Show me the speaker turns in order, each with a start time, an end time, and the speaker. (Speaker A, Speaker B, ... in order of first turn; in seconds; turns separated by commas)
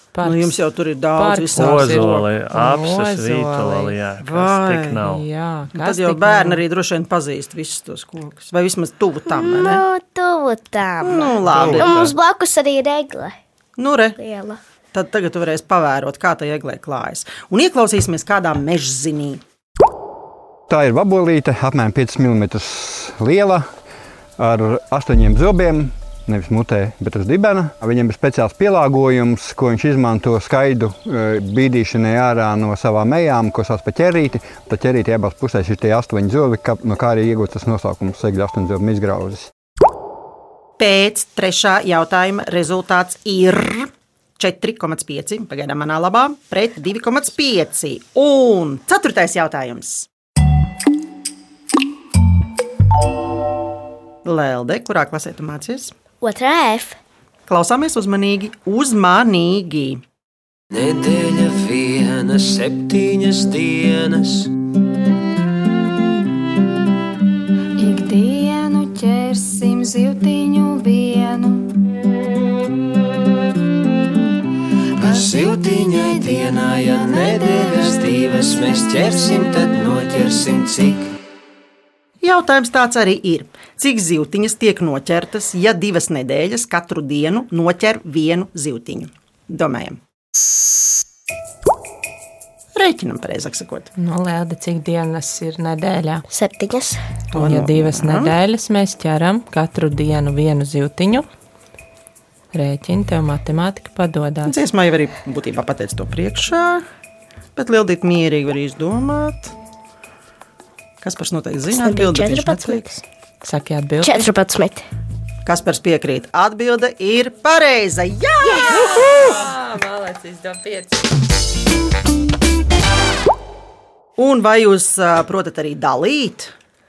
Speaker A: 0.1-0.6, Speaker B: 0.2-2.2, Speaker A: 1.2-4.0, Speaker C: 1.6-5.2, Speaker B: 4.2-5.0, Speaker A: 5.0-6.6, Speaker B: 5.7-9.8, Speaker D: 9.3-13.3, Speaker B: 11.0-12.0, Speaker C: 11.4-12.2, Speaker B: 13.8-14.2, Speaker D: 14.2-14.6, Speaker B: 14.9-19.4, Speaker E: 20.7-23.7, Speaker E: 24.4-39.5, Speaker B: 40.8-50.1, Speaker B: 54.2-55.9, Speaker D: 56.2-57.0, Speaker B: 57.5-60.0, Speaker F: 60.7-64.5, Speaker G: 67.8-71.7, Speaker F: 75.0-81.1, Speaker G: 77.2-77.9, Speaker B: 82.2-90.0, Speaker B: 92.8-93.9, Speaker A: 94.0-96.2, Speaker D: 96.3-97.0, Speaker B: 97.3-98.3, Speaker A: 97.3-101.3, Speaker A: 102.5-104.5, Speaker B: 104.5-106.8, Speaker B: 107.6-109.5, Speaker B: 111.0-112.8, Speaker D: 111.7-113.0, Speaker A: 113.4-114.3, Speaker D: 114.0-114.8, Speaker B: 115.5-119.5, Speaker D: 118.4-119.4, Speaker A: 118.7-121.0, Speaker B: 124.2-126.5